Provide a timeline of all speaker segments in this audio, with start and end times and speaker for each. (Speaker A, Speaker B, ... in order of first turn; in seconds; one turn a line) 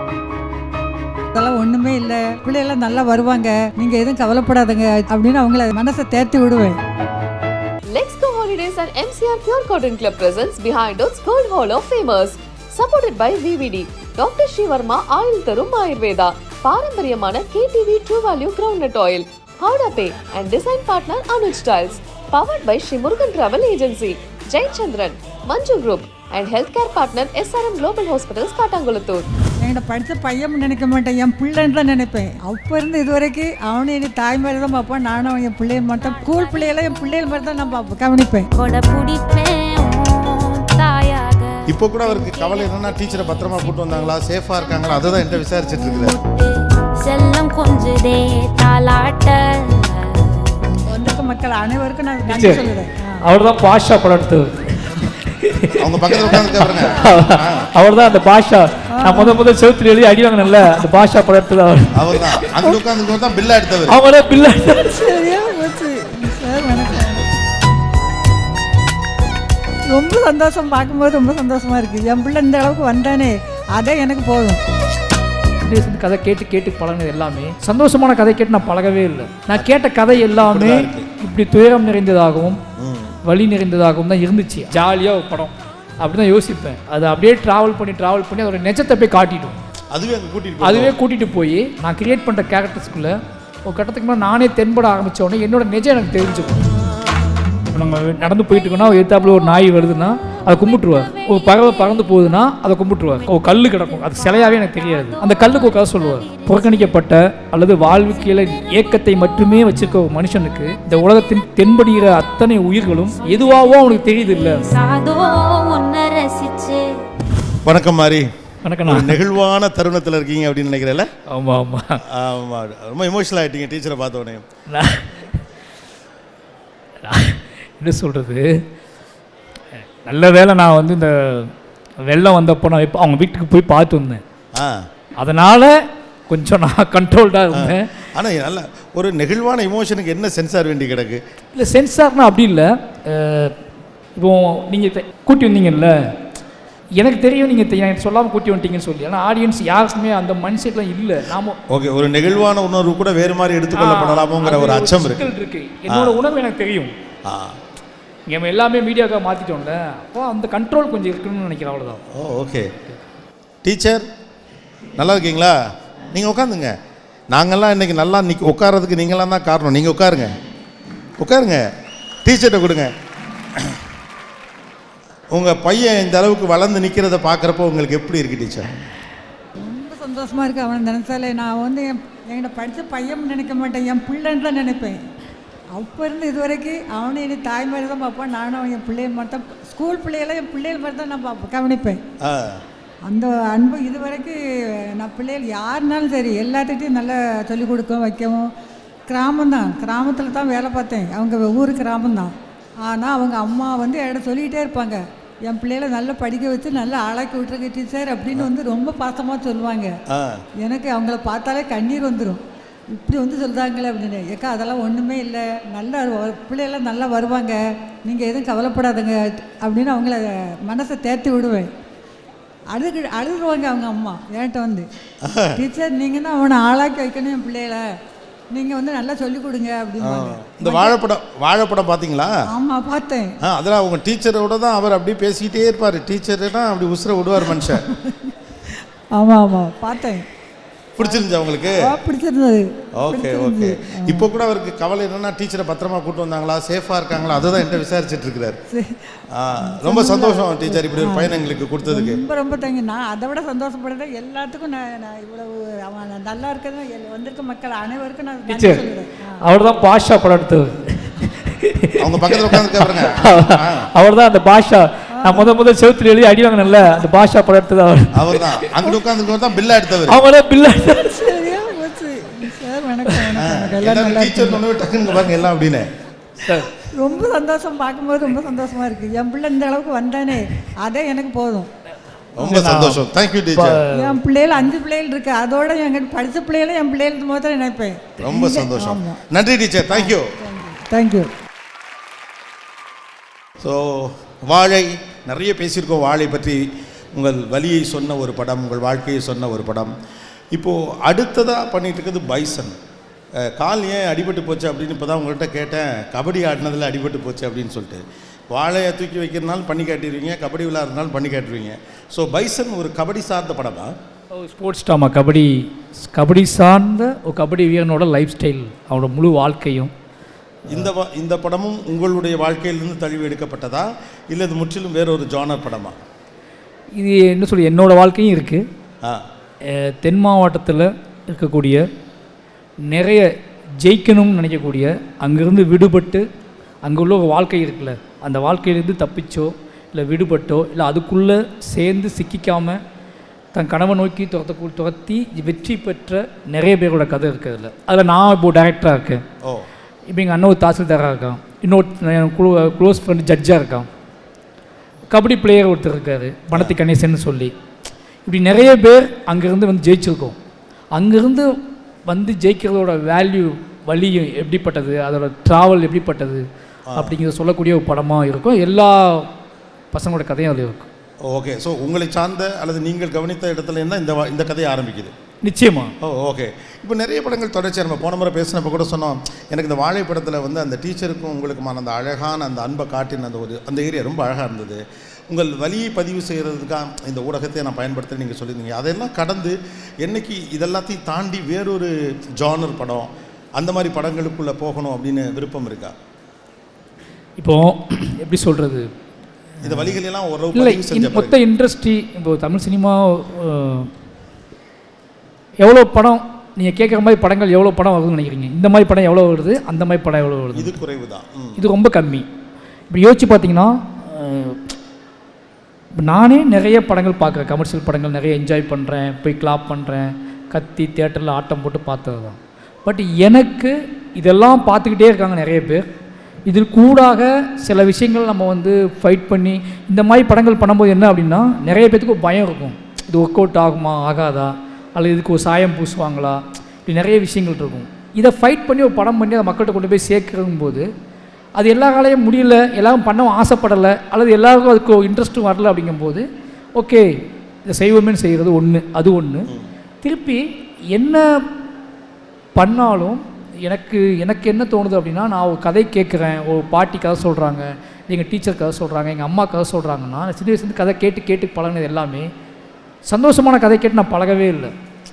Speaker A: 1.3-6.8
Speaker B: 7.9-29.2
Speaker A: 29.6-38.5
Speaker C: 35.9-37.2
Speaker C: 38.5-50.7
Speaker D: 41.7-46.1
Speaker A: 50.9-53.2
Speaker E: 52.3-52.6
Speaker E: 53.2-62.5
Speaker D: 55.8-57.7
Speaker A: 59.0-59.4
Speaker D: 61.9-64.0
Speaker E: 63.9-65.1
Speaker A: 64.9-67.3
Speaker A: 69.9-74.6
Speaker E: 75.6-82.6
Speaker D: 79.5-81.1
Speaker D: 82.8-83.2
Speaker E: 83.2-89.6
Speaker D: 89.9-91.0
Speaker E: 90.6-96.6
Speaker E: 97.7-114.7
Speaker C: 100.5-102.3
Speaker C: 103.2-107.0
Speaker C: 107.9-109.2
Speaker C: 113.2-117.0
Speaker D: 117.6-118.2
Speaker E: 118.6-119.2
Speaker D: 118.8-121.1
Speaker E: 121.3-122.0
Speaker D: 122.1-124.4
Speaker E: 124.7-125.3
Speaker E: 127.0-128.5
Speaker E: 130.0-131.5
Speaker E: 132.1-134.2
Speaker E: 135.2-137.9
Speaker D: 137.5-141.2
Speaker E: 141.5-143.5
Speaker E: 144.2-146.0
Speaker E: 147.0-151.6
Speaker D: 151.7-155.3
Speaker E: 153.7-156.9
Speaker D: 155.9-156.2
Speaker D: 157.2-157.6
Speaker E: 158.3-162.0
Speaker D: 162.1-162.7
Speaker D: 163.6-164.0
Speaker D: 165.0-165.5
Speaker D: 166.1-166.7
Speaker D: 167.3-170.3
Speaker D: 171.2-171.6
Speaker D: 172.2-172.9
Speaker D: 175.3-178.7
Speaker A: 179.6-185.0
Speaker A: 185.7-192.0
Speaker D: 192.2-192.6
Speaker A: 193.1-194.4
Speaker A: 195.0-198.5
Speaker A: 199.1-202.3
Speaker A: 202.8-209.9
Speaker D: 210.1-210.4
Speaker A: 210.6-221.7
Speaker A: 222.7-224.9
Speaker D: 225.2-225.6
Speaker A: 225.5-227.8
Speaker A: 228.5-230.9
Speaker D: 230.0-232.3
Speaker A: 232.4-233.3
Speaker D: 233.4-237.9
Speaker A: 239.2-240.2
Speaker D: 241.0-241.9
Speaker A: 241.0-244.3
Speaker D: 243.0-248.6
Speaker A: 248.7-259.4
Speaker D: 249.3-252.2
Speaker E: 258.5-258.9
Speaker E: 259.4-268.6
Speaker D: 262.0-263.9
Speaker A: 265.2-265.5
Speaker D: 268.1-270.2
Speaker E: 270.1-271.5
Speaker A: 271.1-274.6
Speaker D: 273.4-275.9
Speaker E: 276.4-276.7
Speaker A: 276.9-281.7
Speaker D: 282.4-283.8
Speaker E: 282.4-283.0
Speaker E: 283.5-284.2
Speaker A: 283.9-289.2
Speaker D: 288.2-290.3
Speaker A: 289.9-291.3
Speaker D: 293.6-296.6
Speaker D: 297.1-299.9
Speaker D: 300.5-302.7
Speaker D: 303.5-313.9
Speaker E: 314.3-319.9
Speaker D: 320.7-325.9
Speaker E: 327.0-328.6
Speaker E: 329.7-331.8
Speaker E: 332.8-336.2
Speaker E: 336.8-342.8
Speaker E: 343.5-349.2
Speaker E: 350.1-353.9
Speaker E: 355.1-357.5
Speaker E: 358.2-360.4
Speaker E: 360.9-361.5
Speaker E: 362.1-366.4
Speaker D: 366.9-367.1
Speaker E: 366.9-369.3
Speaker E: 369.9-370.9
Speaker D: 371.2-375.1
Speaker E: 375.4-375.9
Speaker D: 376.0-395.9
Speaker E: 397.4-398.9
Speaker E: 399.6-400.0
Speaker D: 399.6-401.4
Speaker E: 400.5-403.9
Speaker E: 405.6-410.8
Speaker D: 410.5-411.6
Speaker E: 411.6-412.3
Speaker E: 412.9-414.6
Speaker E: 416.0-425.9
Speaker E: 426.5-440.9
Speaker E: 441.6-446.2
Speaker E: 446.8-447.0
Speaker E: 447.6-449.5
Speaker E: 450.0-451.3
Speaker E: 452.6-462.3
Speaker E: 463.1-464.7